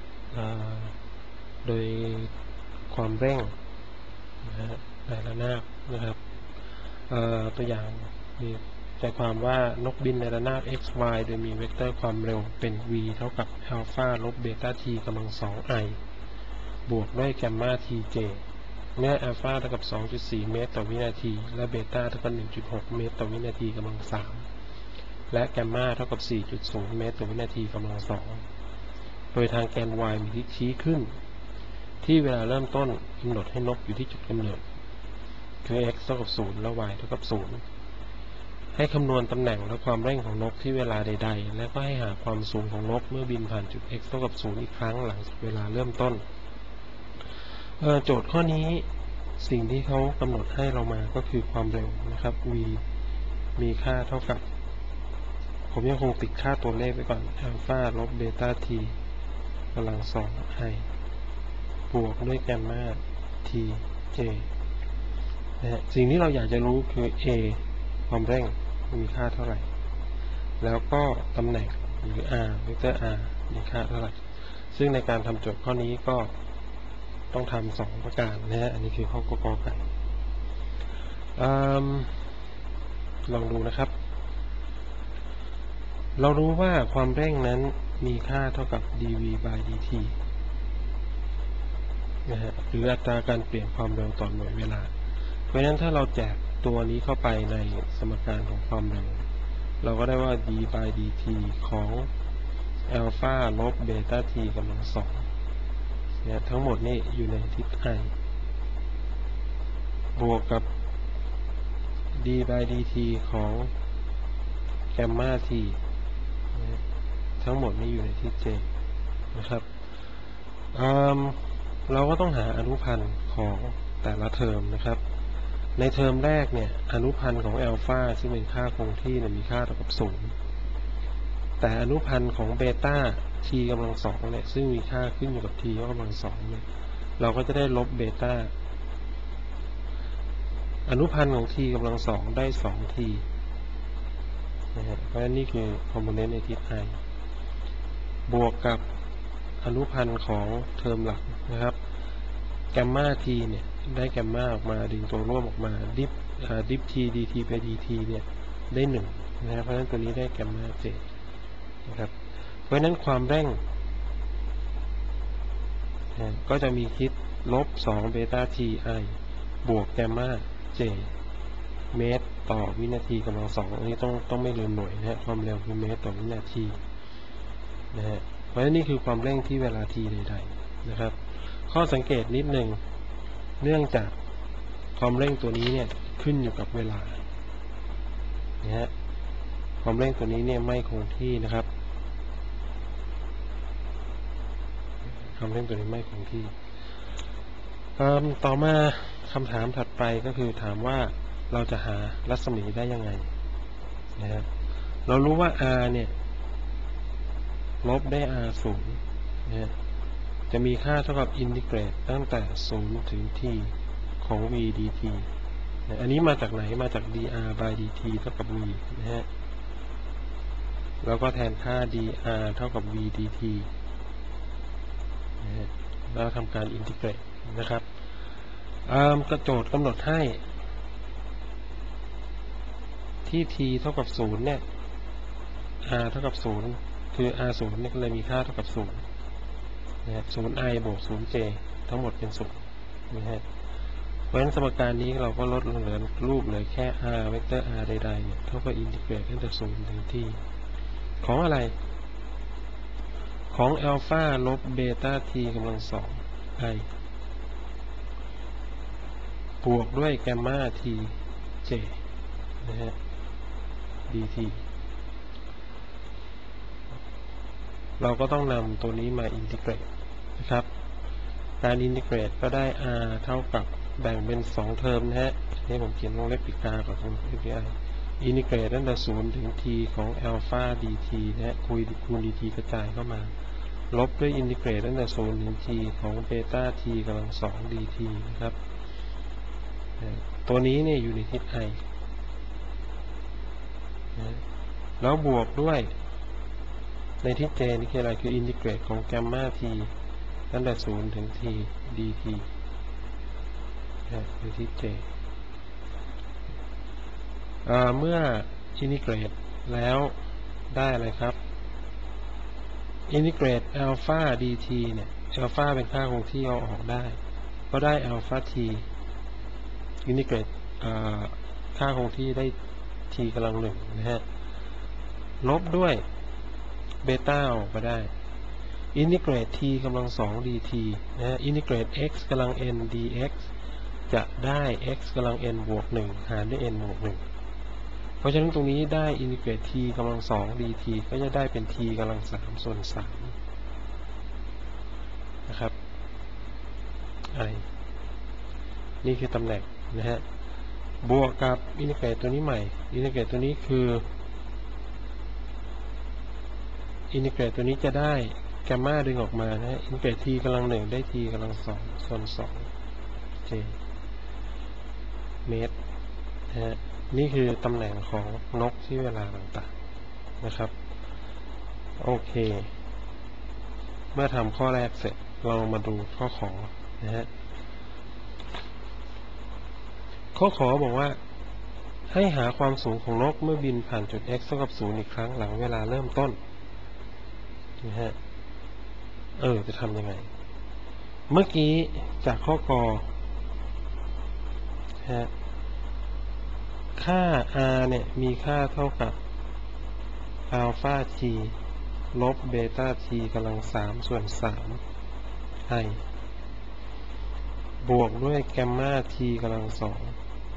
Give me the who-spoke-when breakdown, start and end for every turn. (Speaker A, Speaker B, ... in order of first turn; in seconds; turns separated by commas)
Speaker A: 0.3-0.9, Speaker A: 1.6-2.3, Speaker A: 2.9-3.5, Speaker A: 4.4-6.2, Speaker A: 7.1-16.0, Speaker A: 16.9-18.4, Speaker A: 19.0-24.5, Speaker A: 25.3-28.4, Speaker A: 29.3-31.1, Speaker A: 32.0-34.7, Speaker A: 35.6-37.6, Speaker A: 38.7-46.2, Speaker A: 47.8-48.9, Speaker A: 49.4-52.8, Speaker A: 53.6-54.4, Speaker A: 55.7-59.0, Speaker A: 59.7-60.9, Speaker A: 61.9-64.5, Speaker A: 65.6-69.7, Speaker A: 70.6-74.2, Speaker A: 74.7-76.4, Speaker A: 77.3-79.9, Speaker A: 81.4-82.2, Speaker A: 83.3-83.9, Speaker A: 86.2-90.2, Speaker A: 92.3-94.9, Speaker A: 95.5-99.3, Speaker A: 99.8-102.1, Speaker A: 102.9-105.3, Speaker A: 106.2-108.1, Speaker A: 110.2-110.7, Speaker A: 112.1-113.7, Speaker A: 114.9-115.8, Speaker A: 116.5-116.8, Speaker A: 117.4-118.7, Speaker A: 119.3-119.7, Speaker A: 120.7-125.0, Speaker A: 125.8-130.4, Speaker A: 131.6-136.7, Speaker A: 137.2-138.5, Speaker A: 140.9-143.2, Speaker A: 144.7-147.0, Speaker A: 148.3-148.8, Speaker A: 149.6-151.8, Speaker A: 152.7-161.1, Speaker A: 161.8-162.2, Speaker A: 162.7-163.6, Speaker A: 166.1-171.1, Speaker A: 171.9-176.8, Speaker A: 177.9-182.8, Speaker A: 183.6-184.2, Speaker A: 185.0-187.3, Speaker A: 188.6-188.9, Speaker A: 189.8-191.7, Speaker A: 195.2-196.6, Speaker A: 198.0-203.3, Speaker A: 204.2-204.5, Speaker A: 205.1-206.1, Speaker A: 207.8-209.7, Speaker A: 210.5-215.3, Speaker A: 215.9-219.3, Speaker A: 221.0-223.7, Speaker A: 225.4-227.9, Speaker A: 228.9-230.5, Speaker A: 233.2-234.6, Speaker A: 235.8-239.0, Speaker A: 240.1-243.4, Speaker A: 244.3-250.4, Speaker A: 251.2-251.8, Speaker A: 253.5-256.9, Speaker A: 259.6-262.0, Speaker A: 262.6-263.0, Speaker A: 264.1-264.6, Speaker A: 268.0-270.7, Speaker A: 271.6-283.3, Speaker A: 283.9-288.6, Speaker A: 290.0-291.8, Speaker A: 294.2-294.4, Speaker A: 295.0-295.9, Speaker A: 297.2-299.9, Speaker A: 300.5-302.5, Speaker A: 304.1-305.1, Speaker A: 307.6-310.2, Speaker A: 310.7-311.4, Speaker A: 313.1-317.2, Speaker A: 317.7-318.9, Speaker A: 320.1-322.6, Speaker A: 323.1-324.2, Speaker A: 325.4-326.0, Speaker A: 327.0-328.1, Speaker A: 328.9-333.5, Speaker A: 334.1-337.2, Speaker A: 338.2-343.4, Speaker A: 345.5-345.8, Speaker A: 347.3-347.7, Speaker A: 349.0-350.2, Speaker A: 351.0-354.1, Speaker A: 357.1-362.7, Speaker A: 363.4-363.8, Speaker A: 365.4-365.8, Speaker A: 366.5-369.7, Speaker A: 370.4-370.8, Speaker A: 372.0-372.7, Speaker A: 374.1-377.3, Speaker A: 380.4-381.2, Speaker A: 382.1-386.4, Speaker A: 387.8-388.2, Speaker A: 389.4-390.3, Speaker A: 391.3-393.1, Speaker A: 395.0-395.3, Speaker A: 397.0-399.2, Speaker A: 400.5-401.6, Speaker A: 402.1-404.8, Speaker A: 405.7-406.0, Speaker A: 407.8-410.2